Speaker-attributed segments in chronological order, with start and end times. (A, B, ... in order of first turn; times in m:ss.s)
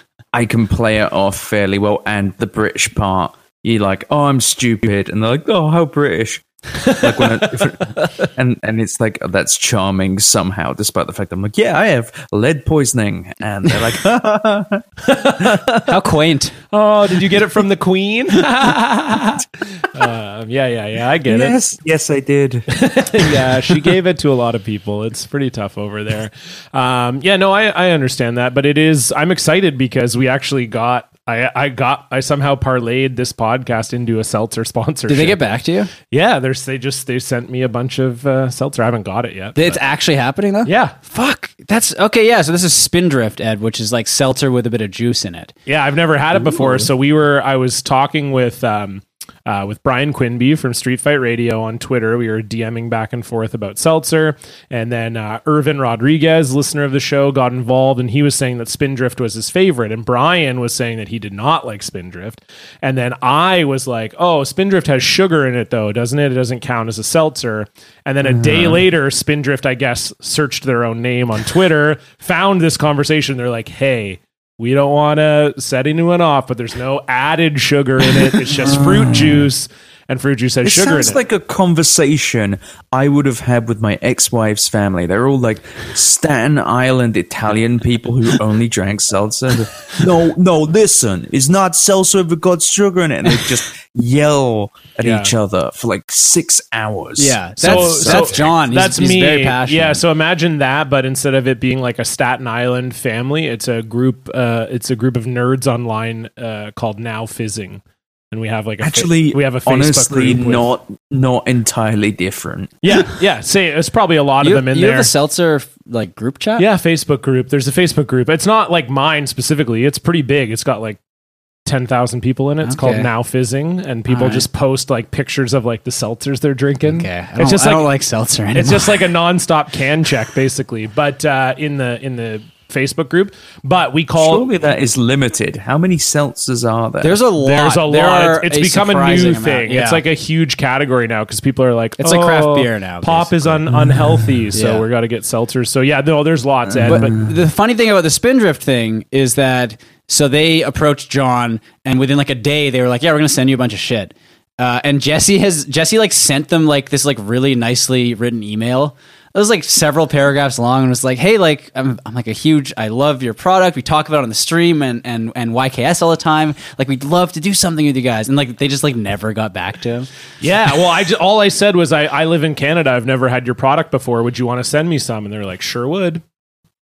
0:00.3-0:14.8 A
0:06.8-0:08.2 B
0:15.0-0:15.7 B
0:15.4-0:15.8 A
0:15.9-0:16.6 C
0:16.7-0:21.6 B
0:21.3-0:22.7 A
0:22.7-0:35.4 B
0:35.1-0:35.9 C
0:36.1-0:39.8 B
0:39.5-0:45.5 C
0:40.6-0:41.0 B
0:45.7-1:21.2 B
0:46.4-0:46.9 C
1:08.2-1:08.8 A
1:18.5-1:19.5 A
1:20.6-1:38.5 A
1:35.0-1:35.3 B
1:37.2-1:40.0 C
1:37.6-1:50.7 B
1:48.8-1:52.7 A
1:52.8-1:55.1 B
1:54.4-1:56.7 C
1:56.6-2:01.0 B
2:01.6-2:07.9 B
2:02.6-2:03.1 C
2:04.1-2:04.5 C
2:06.8-2:09.1 C
2:08.5-2:14.4 B
2:14.2-2:17.2 A
2:17.0-2:20.0 C
2:17.4-2:27.2 B
2:22.0-2:23.7 C
2:24.5-2:24.8 C
2:26.7-2:27.3 A
2:26.8-2:50.1 C
2:50.4-2:56.2 B